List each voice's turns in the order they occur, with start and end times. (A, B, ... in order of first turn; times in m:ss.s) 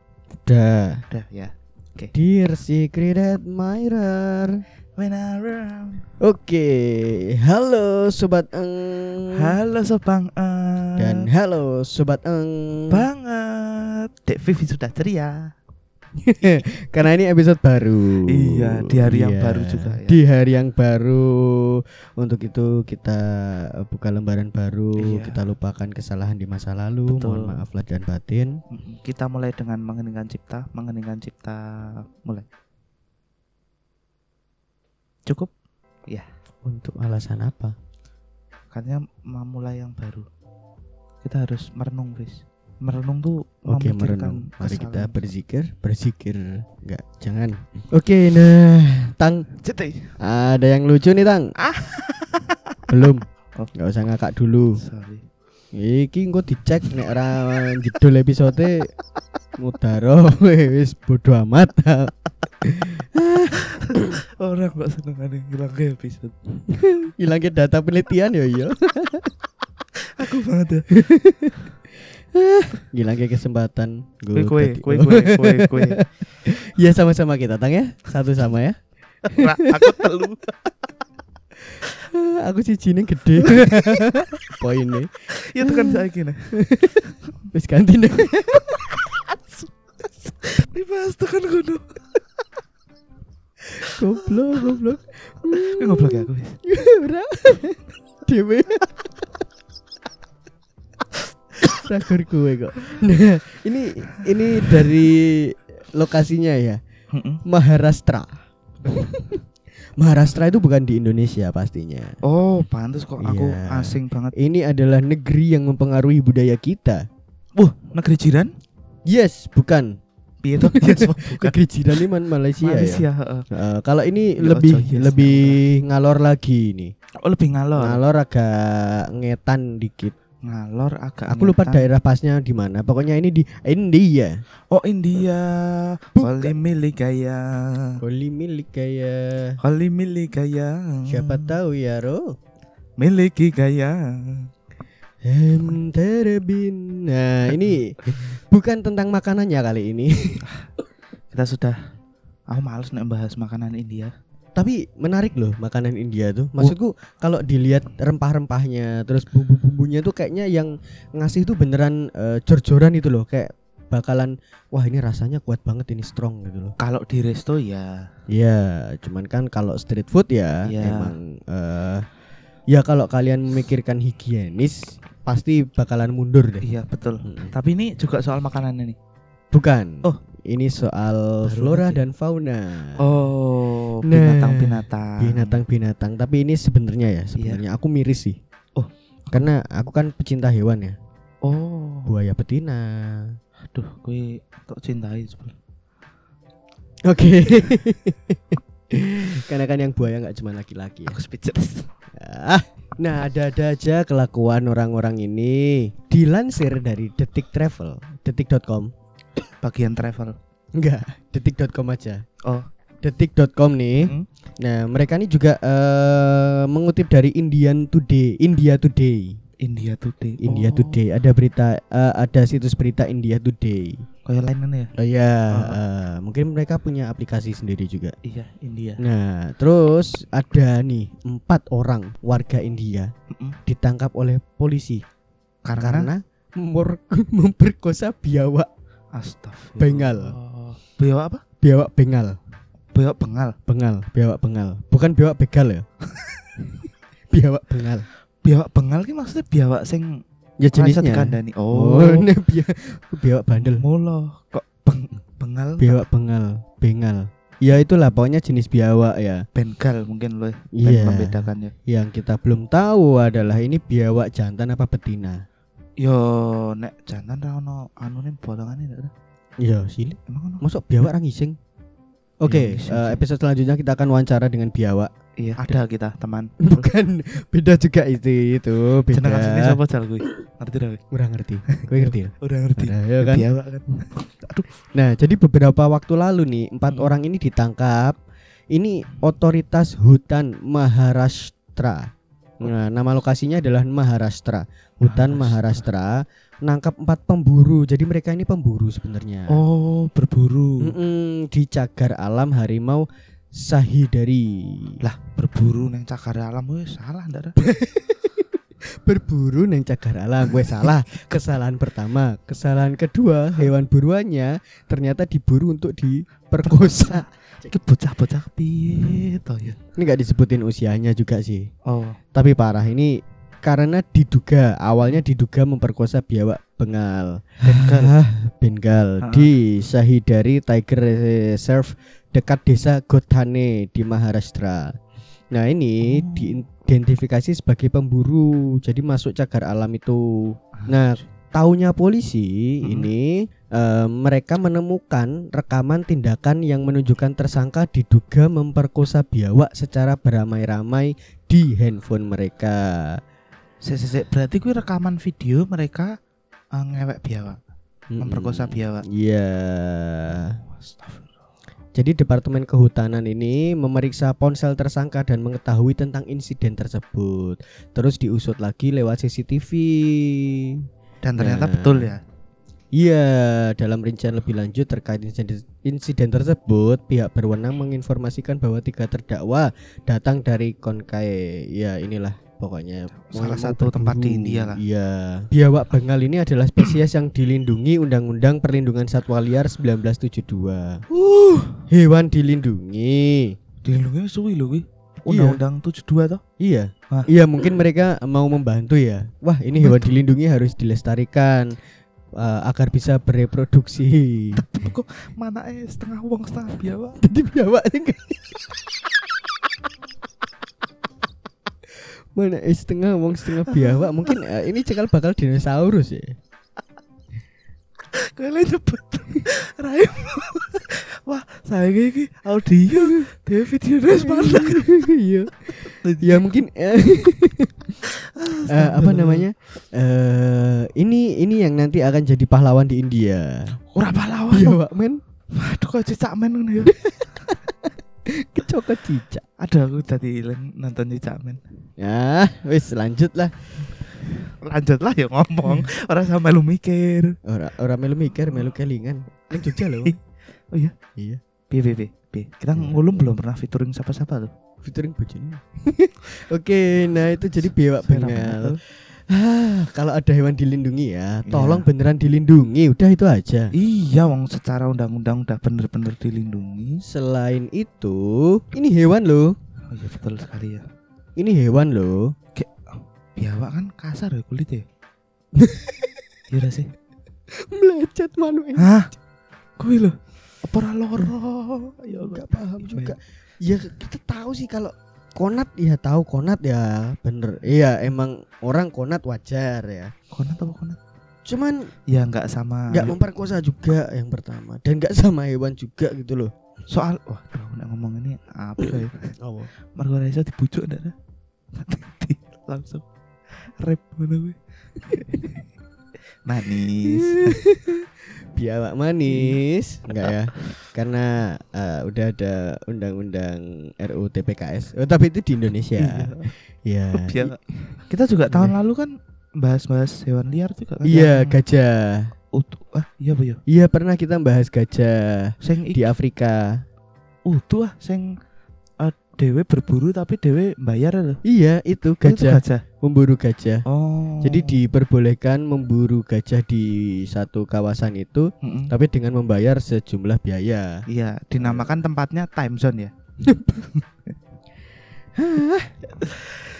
0:00.5-0:01.1 A
0:01.1-0:02.1 B
0:02.1-0:04.6 A
0:05.0-0:06.0 B
0:06.2-0:09.6 A
0:09.3-0:11.3 B
0:11.0-0:13.1 A
0:12.9-0:15.5 B
0:16.2-0:28.6 A
0:18.3-0:20.2 B
0:25.0-0:25.4 B
0:27.1-0:27.6 B
0:28.7-0:32.5 B
0:36.6-0:37.8 A
0:38.7-0:40.3 B
0:41.2-0:45.2 B
0:43.7-0:49.5 A
0:49.6-0:50.2 B
0:50.2-0:51.5 A
0:51.6-0:53.0 B
0:52.9-0:54.8 A
0:54.8-0:55.2 B
0:55.7-0:58.9 A
0:59.6-1:04.2 A
1:03.6-1:06.4 B
1:06.7-1:09.3 A
1:10.2-1:11.0 B
1:11.1-1:11.7 A
1:12.3-1:19.4 A
1:14.3-1:16.0 B
1:19.4-1:20.5 B
1:22.1-1:29.0 A
1:23.5-1:24.6 B
1:25.4-1:26.6 B
1:28.6-1:32.2 B
1:33.8-1:38.9 A
1:35.6-1:36.6 B
1:41.7-1:46.8 A
1:44.5-1:45.0 B
1:47.1-1:47.4 B
1:47.5-1:49.4 A
1:50.0-1:52.2 A
1:52.2-1:54.3 B
1:53.2-1:57.0 A
1:57.6-1:58.5 B
1:59.1-2:00.0 A
2:00.4-2:02.1 B
2:00.6-2:06.9 A
2:02.6-2:03.5 B
2:04.4-2:05.6 B
2:07.2-2:08.0 B
2:07.8-2:10.2 A
2:10.4-2:11.9 B
2:11.3-2:14.4 A
2:14.7-2:18.0 B
2:16.2-2:16.6 A
2:18.0-2:19.6 A
2:19.6-2:21.6 B
2:21.1-2:22.3 A
2:23.0-2:24.5 B
2:25.2-2:30.4 A
2:31.3-2:31.9 B
2:32.5-2:34.1 B
2:34.6-2:46.8 A
2:46.8-2:48.1 B
2:48.3-2:52.1 A
2:50.7-2:51.2 B
2:52.7-2:56.6 A
2:56.6-2:59.0 B
2:57.2-2:57.5 A
2:59.5-3:03.1 A
3:01.4-3:02.0 B
3:03.0-3:05.6 B
3:04.0-3:08.4 A
3:07.4-3:07.6 B
3:09.3-3:11.0 A
3:11.4-3:12.1 B
3:12.1-3:13.4 A
3:13.7-3:15.6 B
3:17.0-3:21.2 A
3:21.1-3:21.9 B
3:22.2-3:28.9 A
3:29.6-3:30.4 B
3:30.8-3:32.2 A
3:33.0-3:39.4 A
3:34.0-3:34.3 B
3:39.6-3:41.0 B
3:40.4-3:44.0 A
3:44.2-3:44.9 B
3:45.0-3:48.2 A
3:45.5-3:45.8 B
3:48.2-3:49.0 B
3:49.0-3:53.1 A
3:53.3-3:53.6 B
3:53.7-3:55.0 A
3:55.6-3:56.1 B
3:55.8-3:58.7 A
3:59.1-4:01.4 B
3:59.8-4:00.4 A
4:01.6-4:02.4 A
4:02.9-4:03.6 B
4:03.7-4:05.9 A
4:06.2-4:06.4 B
4:07.3-4:08.1 A
4:08.4-4:12.3 B
4:10.6-4:13.9 A
4:13.6-4:16.0 B
4:15.8-4:19.5 A
4:19.6-4:21.7 B
4:20.8-4:25.4 A
4:26.0-4:29.1 B
4:29.6-4:31.6 A
4:30.3-4:30.6 B
4:32.4-4:35.1 A
4:32.4-4:33.2 B
4:35.4-4:36.9 B
4:36.6-4:39.8 A
4:39.1-4:41.0 B
4:41.1-4:43.5 A
4:41.7-4:44.7 B
4:44.9-4:48.2 A
4:46.9-4:47.2 B
4:48.7-4:52.1 A
4:52.6-4:59.6 A
4:55.0-4:55.9 B
4:59.5-5:01.0 B
5:00.8-5:05.0 A
5:05.0-5:07.6 B
5:07.6-5:17.2 A
5:10.6-5:10.9 B
5:16.6-5:19.8 B
5:20.0-5:21.7 A
5:21.9-5:22.2 B
5:22.3-5:35.0 A
5:27.6-5:28.1 B
5:29.2-5:29.5 B
5:35.5-5:53.2 A
5:36.0-5:36.6 B
5:40.8-5:41.2 B
5:42.8-5:43.1 B
5:53.8-5:56.2 B
5:56.8-5:57.6 B
5:58.1-6:00.6 A
5:58.2-5:59.0 B
6:00.7-6:01.3 B
6:02.0-6:10.8 A
6:11.2-6:12.2 B
6:11.4-6:12.1 A
6:12.9-6:31.0 A
6:23.1-6:24.8 B
6:31.1-6:31.9 B
6:31.9-6:33.6 A
6:33.8-6:36.4 B
6:35.3-6:35.6 A
6:36.6-6:41.8 A
6:39.8-6:40.2 B
6:42.4-6:44.6 A
6:44.6-6:47.2 B
6:47.2-6:48.8 A
6:52.0-6:56.4 A
6:53.7-6:54.4 B
6:58.1-7:05.1 B
7:02.9-7:03.2 A
7:04.2-7:07.9 A
7:05.6-7:06.6 B
7:08.1-7:09.5 B
7:08.7-7:13.8 A
7:13.9-7:14.8 B
7:14.5-7:15.2 A
7:15.6-7:17.5 B
7:16.9-7:19.4 A
7:19.6-7:21.6 B
7:22.0-7:23.8 A
7:23.9-7:27.4 B
7:27.4-7:30.2 A
7:29.6-7:30.2 B
7:31.7-7:34.5 B
7:32.7-7:33.3 A
7:34.8-7:43.7 A
7:38.0-7:38.8 B
7:41.5-7:41.9 B
7:43.7-7:47.0 B
7:47.0-7:49.6 A
7:49.9-7:50.8 B
7:51.4-7:52.3 A
7:52.6-7:54.8 B
7:55.6-7:56.2 A
7:56.5-7:56.9 B
7:57.5-7:59.0 A
7:58.8-7:59.1 B
7:59.8-8:03.2 B
8:02.1-8:10.1 A
8:10.3-8:11.0 B
8:11.5-8:11.9 A
8:12.1-8:13.2 B
8:12.9-8:16.5 A
8:16.9-8:21.1 B
8:19.4-8:19.7 A
8:21.7-8:25.6 B
8:26.4-8:27.7 B
8:27.0-8:38.8 A
8:29.3-8:29.6 B
8:30.1-8:30.7 B
8:36.0-8:36.5 B
8:37.1-8:41.6 B
8:41.0-8:42.3 A
8:42.5-8:43.6 B
8:43.7-8:46.8 A
8:45.6-8:46.1 B
8:47.5-8:48.4 B
8:49.0-8:51.4 B
8:51.4-8:53.8 A
8:52.2-8:52.8 B
8:53.9-8:54.8 B
8:54.4-9:01.0 A
8:58.6-8:58.9 B
9:01.1-9:03.1 B
9:01.6-9:02.0 A
9:03.4-9:04.0 A
9:05.4-9:05.9 A
9:06.2-9:06.6 B